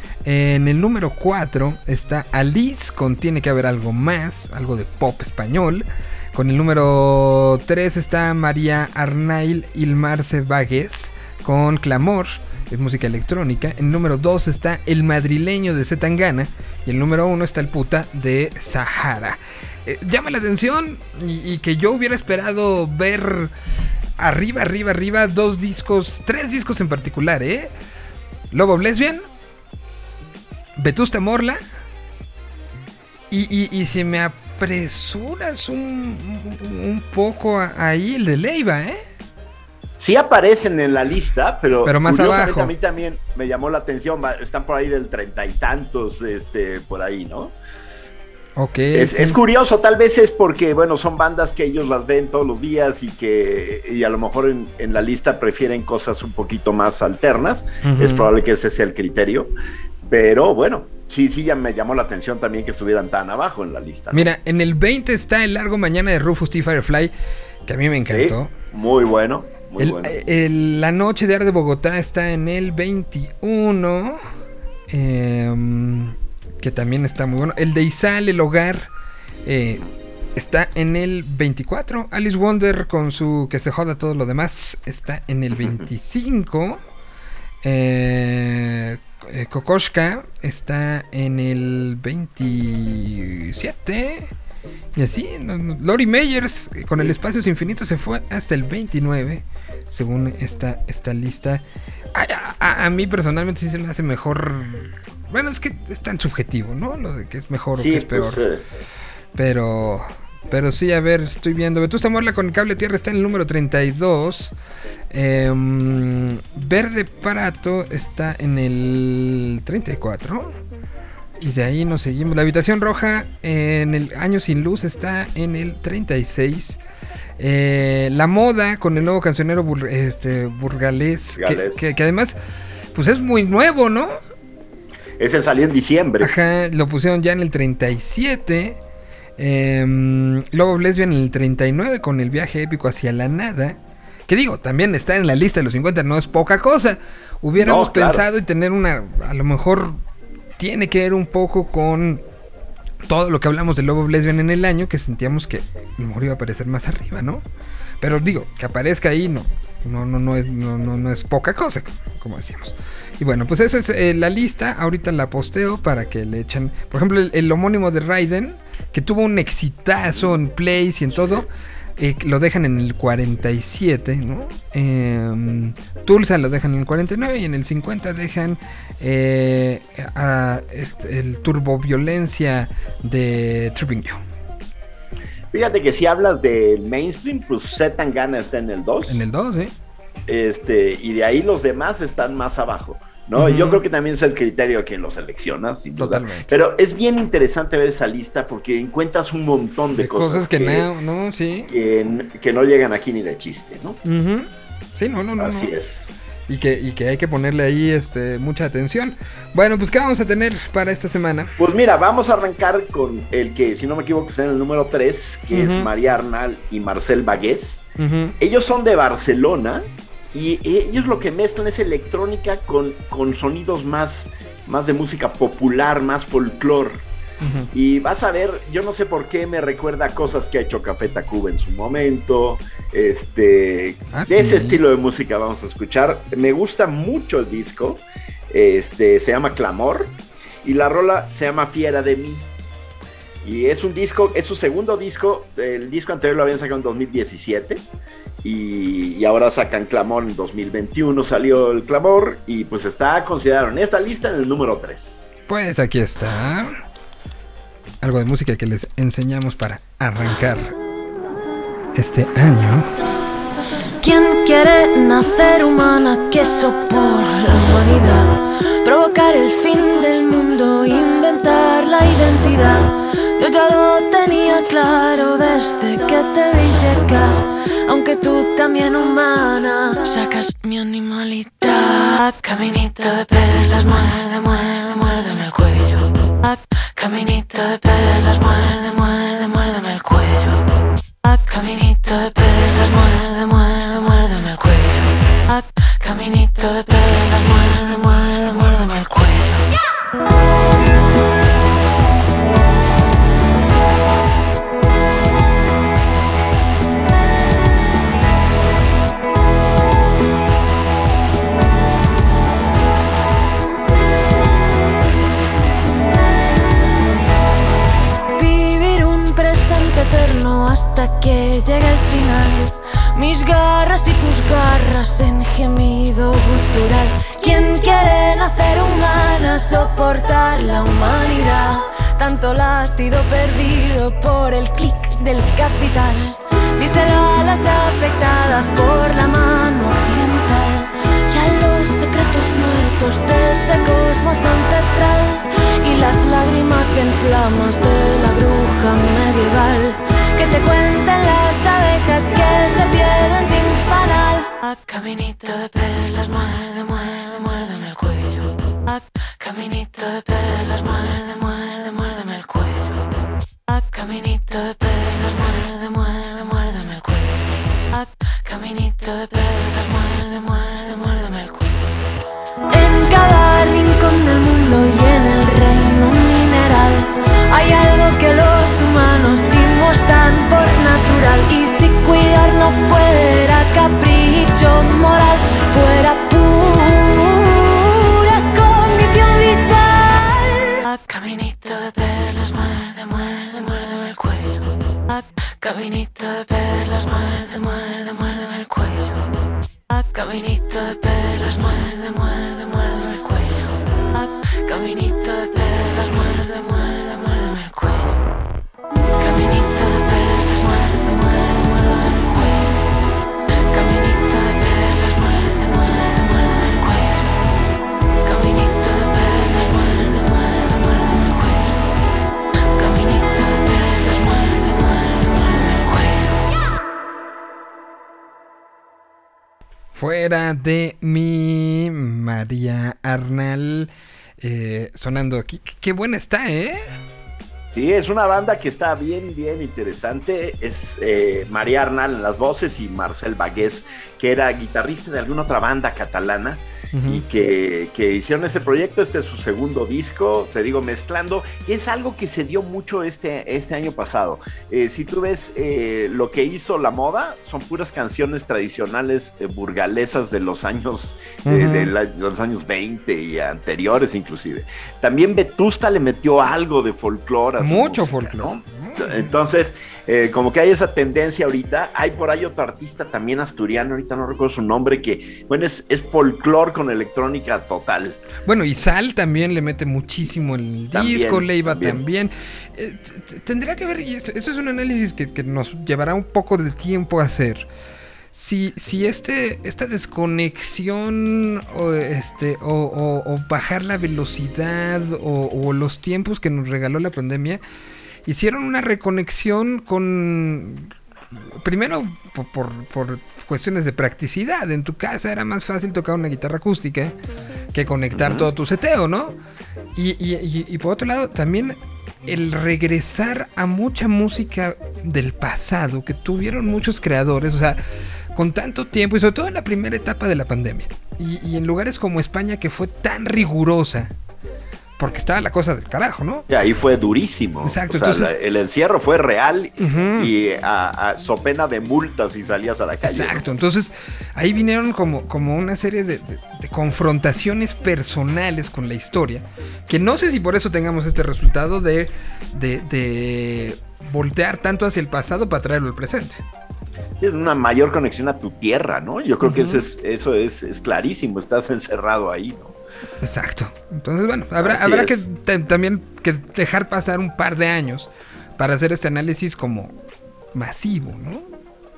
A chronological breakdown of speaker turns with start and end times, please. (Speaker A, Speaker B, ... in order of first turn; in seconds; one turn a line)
Speaker A: 0.2-23.5
Speaker A: 24.2-27.7
Speaker A: 28.5-29.3
Speaker A: 30.8-31.6
Speaker A: 33.3-39.0
Speaker B: 40.0-47.5
Speaker A: 41.9-42.7
Speaker A: 48.6-49.4
Speaker B: 48.9-59.5
Speaker A: 57.8-58.3
Speaker B: 60.1-64.2
Speaker A: 64.1-67.1
Speaker A: 67.7-68.5
Speaker B: 68.1-70.2
Speaker A: 69.8-74.2
Speaker A: 74.9-78.9
Speaker A: 79.5-79.8
Speaker A: 80.4-86.8
Speaker B: 85.6-85.9
Speaker A: 87.6-94.3
Speaker A: 95.0-108.4
Speaker B: 107.7-108.6
Speaker A: 109.4-114.5
Speaker A: 115.1-120.6
Speaker A: 121.4-126.8
Speaker A: 127.4-132.4
Speaker B: 131.3-131.9
Speaker A: 132.9-134.2
Speaker B: 135.2-136.3
Speaker A: 136.2-138.8
Speaker A: 139.4-150.0
Speaker B: 147.6-148.2
Speaker A: 150.6-152.2
Speaker A: 153.1-157.4
Speaker A: 158.0-184.2
Speaker B: 171.2-171.4
Speaker B: 185.5-189.2
Speaker A: 189.1-189.7
Speaker B: 190.3-200.9
Speaker A: 193.4-193.8
Speaker A: 196.0-196.5
Speaker A: 199.9-201.7
Speaker B: 201.7-204.0
Speaker A: 204.0-205.7
Speaker B: 205.4-206.1
Speaker A: 206.5-211.6
Speaker B: 211.6-217.8
Speaker A: 215.5-215.9
Speaker A: 218.0-218.3
Speaker B: 218.4-227.0
Speaker A: 227.4-227.7
Speaker B: 227.7-242.5
Speaker A: 234.1-234.8
Speaker B: 243.4-247.8
Speaker B: 248.4-255.3
Speaker A: 255.5-256.7
Speaker A: 258.0-260.7
Speaker A: 261.9-262.9
Speaker C: 264.0-290.6
Speaker C: 291.3-299.7
Speaker C: 318.4-363.0
Speaker C: 363.7-371.7
Speaker C: 372.7-399.2
Speaker C: 399.9-408.2
Speaker C: 408.9-412.8
Speaker C: 413.5-417.4
Speaker C: 418.2-421.8
Speaker C: 422.7-426.3
Speaker A: 429.9-436.9
Speaker B: 437.7-478.2
Speaker A: 446.9-447.2
Speaker A: 461.4-461.9
Speaker A: 467.6-469.3
Speaker A: 478.4-487.7
Speaker B: 480.9-482.0
Speaker A: 488.3-497.6
Speaker A: 498.2-507.2
Speaker A: 507.7-509.4
Speaker B: 508.1-508.5
Speaker A: 509.9-517.8
Speaker A: 518.3-524.1
Speaker A: 525.0-526.5
Speaker B: 526.5-533.4
Speaker A: 527.6-528.3
Speaker A: 529.8-530.3
Speaker A: 533.0-546.4
Speaker B: 547.2-552.8
Speaker A: 549.4-549.8
Speaker A: 553.2-560.0
Speaker B: 554.6-555.2
Speaker A: 560.5-561.5